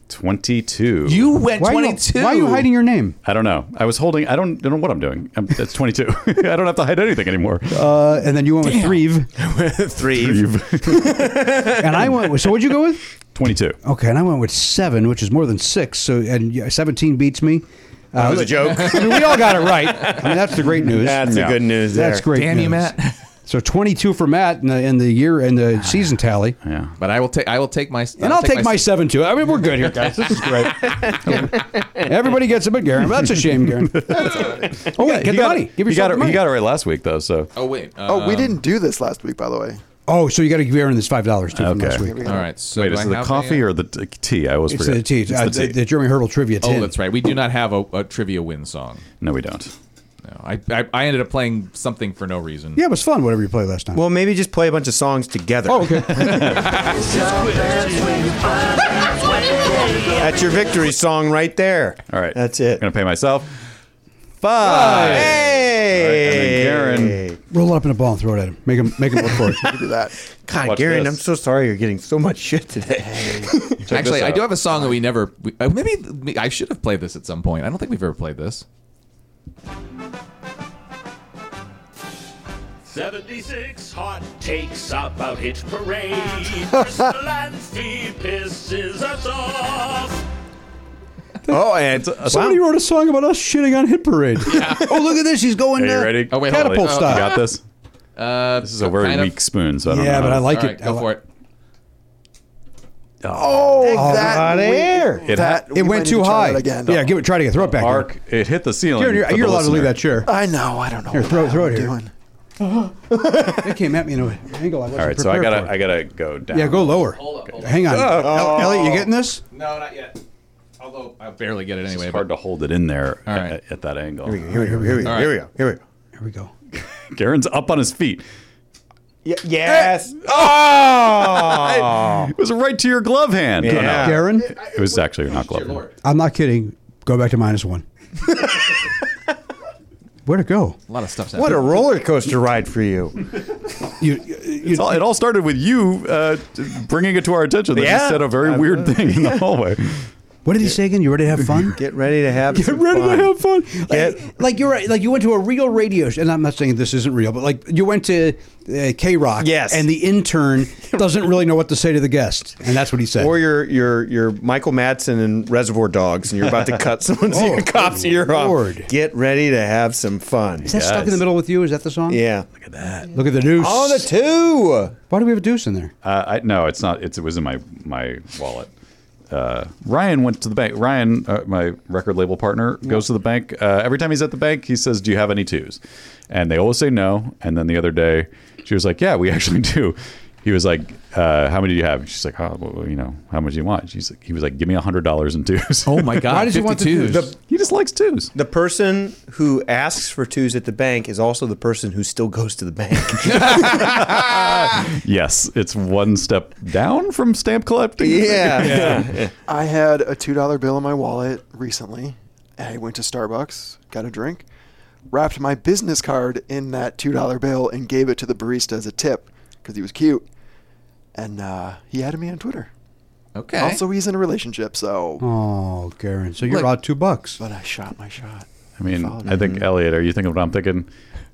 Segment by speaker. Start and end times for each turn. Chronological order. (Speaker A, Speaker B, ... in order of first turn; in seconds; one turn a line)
Speaker A: 0.1-1.3
Speaker B: 1.1-2.7
Speaker C: 1.6-3.2
Speaker A: 3.2-7.8
Speaker C: 7.7-9.3
Speaker B: 8.6-9.0
Speaker D: 9.4-12.0
Speaker A: 10.1-11.2
Speaker C: 11.8-13.0
Speaker A: 13.3-13.8
Speaker C: 13.8-22.9
Speaker D: 18.1-22.2
Speaker A: 21.3-21.6
Speaker B: 22.3-23.2
Speaker C: 23.4-26.6
Speaker A: 26.6-26.9
Speaker B: 27.0-28.9
Speaker C: 28.2-36.4
Speaker D: 30.6-32.1
Speaker A: 33.9-37.5
Speaker E: 34.3-34.6
Speaker B: 37.5-38.6
Speaker E: 38.1-39.8
Speaker C: 40.1-42.3
Speaker A: 41.5-42.1
Speaker E: 41.9-42.5
Speaker B: 42.2-43.6
Speaker A: 42.7-45.8
Speaker C: 44.7-46.9
Speaker B: 46.6-49.0
Speaker A: 49.2-49.7
Speaker B: 50.2-52.8
Speaker C: 52.8-54.0
Speaker D: 53.9-56.6
Speaker C: 55.6-56.4
Speaker F: 56.7-60.7
Speaker D: 60.2-62.8
Speaker A: 62.1-63.5
Speaker A: 64.4-65.4
Speaker D: 64.6-67.4
Speaker C: 64.7-65.2
Speaker B: 65.0-65.3
Speaker A: 66.0-67.2
Speaker C: 67.5-69.7
Speaker E: 69.5-70.2
Speaker D: 70.4-74.5
Speaker A: 70.6-71.2
Speaker E: 73.0-73.5
Speaker A: 73.9-74.4
Speaker B: 73.9-78.6
Speaker F: 82.8-90.2
Speaker C: 91.4-97.4
Speaker D: 91.5-92.6
Speaker B: 94.4-95.0
Speaker A: 95.8-97.6
Speaker B: 96.3-97.5
Speaker B: 98.2-99.4
Speaker A: 98.6-100.5
Speaker C: 99.9-101.1
Speaker B: 100.2-101.2
Speaker A: 103.2-104.0
Speaker D: 103.5-105.3
Speaker E: 103.8-107.1
Speaker C: 103.8-104.9
Speaker A: 105.2-105.6
Speaker C: 105.4-108.1
Speaker A: 107.6-110.0
Speaker C: 109.0-110.3
Speaker E: 110.2-112.1
Speaker C: 111.1-111.9
Speaker D: 113.1-113.7
Speaker C: 113.5-115.9
Speaker A: 115.0-117.1
Speaker C: 116.5-119.4
Speaker B: 117.0-118.1
Speaker D: 117.8-119.1
Speaker B: 119.5-120.2
Speaker B: 120.8-122.3
Speaker A: 121.9-124.5
Speaker B: 123.3-123.5
Speaker D: 124.2-125.8
Speaker C: 124.5-125.3
Speaker B: 125.0-125.3
Speaker C: 126.2-126.5
Speaker A: 126.8-128.2
Speaker D: 129.2-132.3
Speaker A: 131.2-135.8
Speaker D: 133.6-134.3
Speaker C: 133.9-134.5
Speaker B: 134.5-135.9
Speaker C: 136.0-137.8
Speaker C: 140.2-140.8
Speaker B: 140.9-141.8
Speaker D: 141.3-143.2
Speaker C: 144.0-145.0
Speaker A: 144.6-150.1
Speaker D: 147.7-149.4
Speaker C: 150.4-151.8
Speaker D: 151.7-153.3
Speaker C: 152.5-163.4
Speaker D: 153.9-154.3
Speaker D: 159.4-159.9
Speaker D: 163.2-170.7
Speaker C: 167.3-168.9
Speaker A: 170.6-171.2
Speaker C: 170.6-172.2
Speaker D: 172.1-172.5
Speaker A: 172.6-173.1
Speaker C: 173.1-174.1
Speaker D: 173.5-175.0
Speaker C: 175.1-175.9
Speaker A: 176.0-178.7
Speaker A: 179.3-196.2
Speaker B: 195.8-197.3
Speaker C: 196.2-197.3
Speaker A: 197.4-198.3
Speaker D: 198.3-204.8
Speaker B: 203.3-204.2
Speaker A: 203.7-209.1
Speaker D: 208.0-209.3
Speaker C: 208.7-209.0
Speaker E: 209.5-214.4
Speaker E: 215.1-220.2
Speaker E: 221.1-222.7
Speaker B: 223.3-223.8
Speaker E: 223.6-225.2
Speaker C: 225.2-227.4
Speaker E: 227.4-229.4
Speaker A: 228.8-230.9
Speaker D: 229.3-229.6